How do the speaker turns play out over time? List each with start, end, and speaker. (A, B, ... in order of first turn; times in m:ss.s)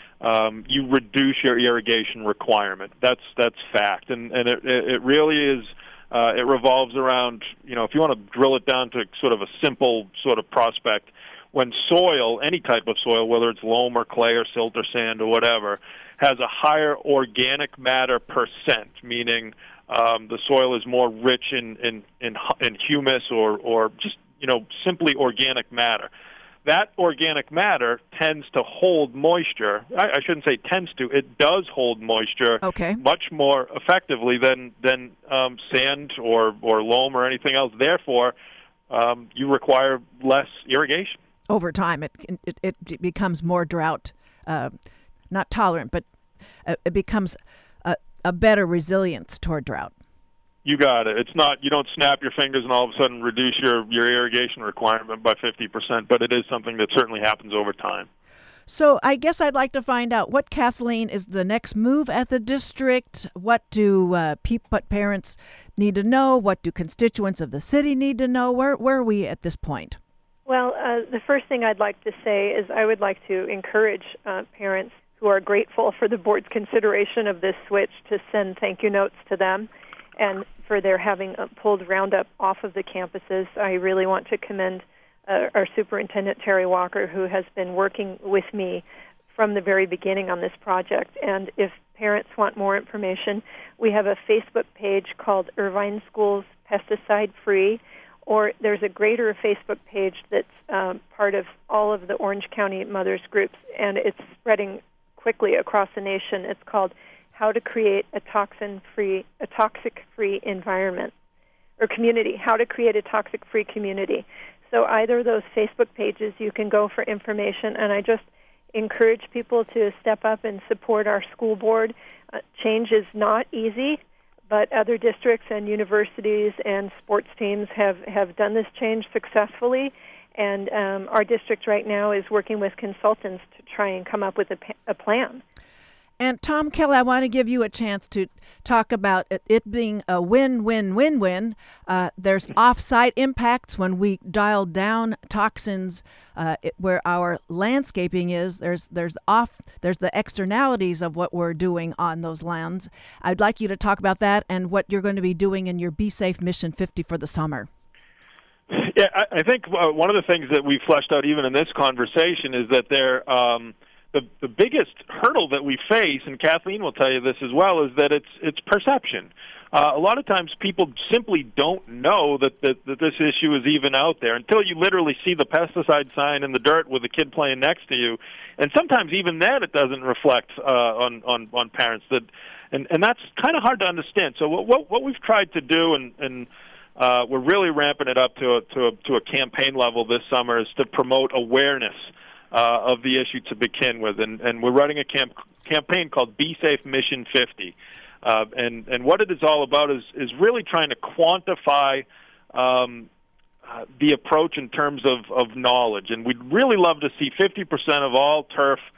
0:00.2-0:26.1 A
0:26.6-0:38.3 A
0:32.6-0:33.0 B
0:38.9-0:41.2 A
0:41.5-0:44.8 B
0:45.3-0:46.0 B
0:46.6-0:49.9 B
0:50.6-0:58.1 A
0:58.7-1:10.0 B
1:10.4-1:51.1 C
1:51.8-2:15.4 C
2:16.2-2:37.7 B
2:38.7-3:23.1 A
3:23.7-3:28.8 A